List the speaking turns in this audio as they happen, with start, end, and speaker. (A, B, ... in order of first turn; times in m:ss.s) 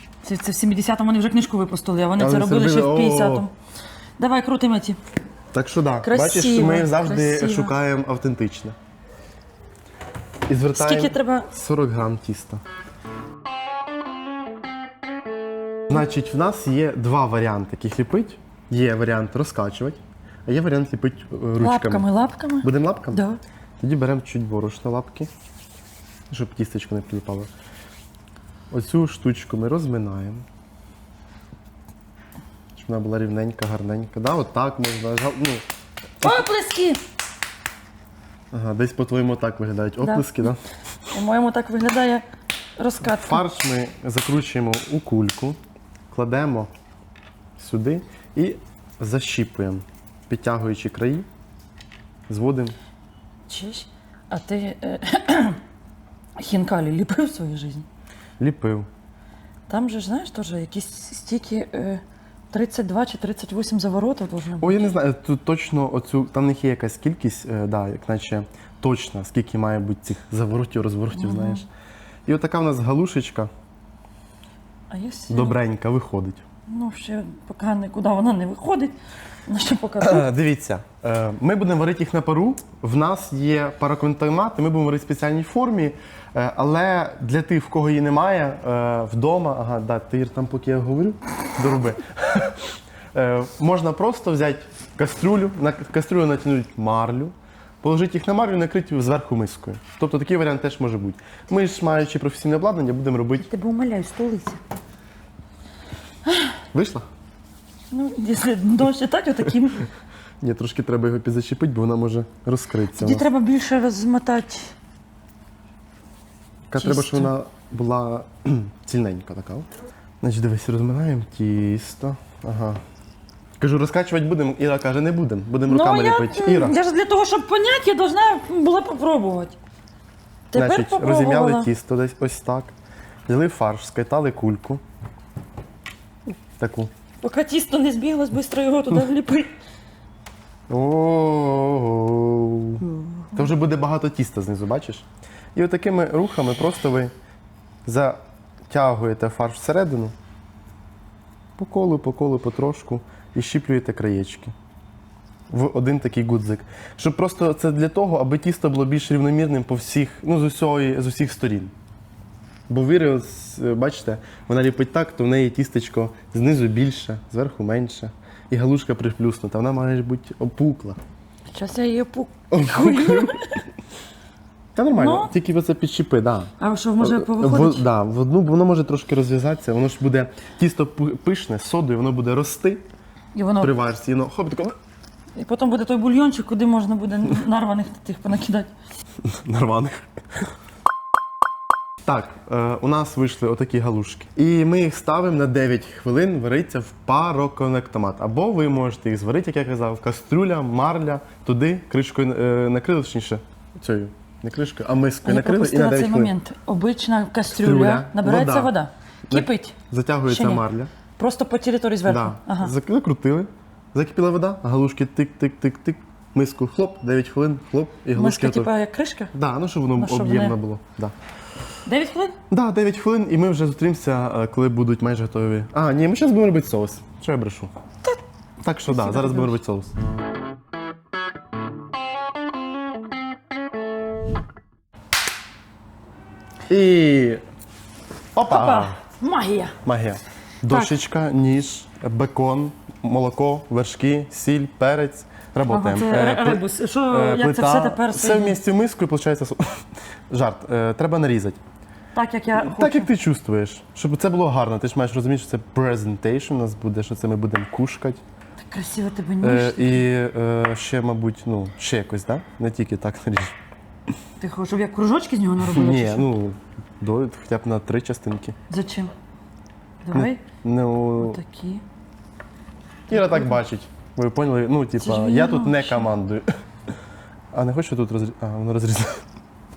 0:00.2-0:03.5 A
0:02.2-0:03.5 B
0:04.2-0:05.0 A
0:05.5-0:08.8 B
0:06.0-0:07.7 A
0:10.5-0:12.6 B
0:10.7-0:11.5 A
0:15.9-0:22.1 B
0:21.6-0:23.4 A
0:22.6-0:23.2 B
0:23.8-0:25.3 B
0:26.3-0:27.5 B
0:28.7-0:30.4 B
0:32.7-0:35.6 B
0:36.2-0:37.0 A
0:38.5-0:40.6 B
0:40.0-0:40.5 A
0:41.1-0:42.2 A
0:42.8-0:43.4 A
0:43.0-0:45.6 B
0:46.1-0:46.7 B
0:47.6-0:51.3 B
0:52.3-0:52.7 B
0:53.5-0:55.6 A
0:56.4-0:57.8 A
0:58.4-0:58.9 B
0:59.7-1:04.8 A
1:04.6-1:11.6 B
1:11.1-1:11.6 A
1:12.2-1:13.5 B
1:14.9-1:15.6 A
1:15.3-1:16.4 B
1:16.7-1:19.0 A
1:19.5-1:20.2 A
1:20.0-1:43.4 B
1:43.4-1:44.6 A
1:46.2-1:46.5 A
1:46.7-1:47.0 B
1:47.9-1:49.8 A
1:50.4-1:53.3 B
1:52.9-1:54.7 A
1:56.7-1:59.7 B
1:56.8-1:57.3 A
2:00.2-2:02.8 B
2:03.6-2:06.8 B
2:05.6-2:09.6 A
2:10.5-2:11.7 A
2:10.5-2:12.7 B
2:13.3-2:14.8 B
2:16.6-2:16.9 B
2:17.2-2:19.5 A
2:20.7-2:27.1 B
2:22.9-2:23.4 A
2:27.8-2:30.1 B
2:31.6-2:34.5 B
2:35.5-2:41.7 B
2:42.7-2:51.0 B
2:51.5-2:53.6 A
2:52.5-2:53.4 B
2:54.7-3:02.8 B
2:54.9-2:55.3 A
2:56.6-2:57.8 A
3:03.3-3:03.7 A
3:03.6-3:04.7 B
3:05.4-3:08.7 A
3:09.2-3:10.0 B
3:12.0-3:26.3 B
3:25.2-3:29.8 A
3:27.5-3:28.7 B
3:29.3-3:30.9 B
3:30.3-3:30.6 A
3:31.2-3:32.7 A
3:32.0-3:38.7 B
3:38.1-3:39.3 A
3:39.3-3:41.1 B
3:39.9-3:40.6 A
3:41.8-3:42.4 A
3:42.5-3:47.7 B
3:48.6-3:49.9 B
3:48.9-3:49.6 A
3:56.7-3:57.4 B
3:58.3-3:59.0 B
3:58.5-3:59.8 A
3:59.8-4:11.6 B
4:00.7-4:00.9 A
4:05.7-4:08.6 A
4:12.1-4:13.1 A
4:12.6-4:18.2 B
4:18.7-4:20.0 A
4:19.4-4:23.6 B
4:24.4-4:26.3 A
4:25.6-4:28.6 B
4:28.7-4:29.1 A
4:30.0-4:30.4 A
4:30.1-4:31.4 B
4:31.2-4:31.8 A
4:33.1-4:33.6 A
4:33.1-4:36.5 B
4:35.0-4:36.1 A
4:37.5-4:39.2 B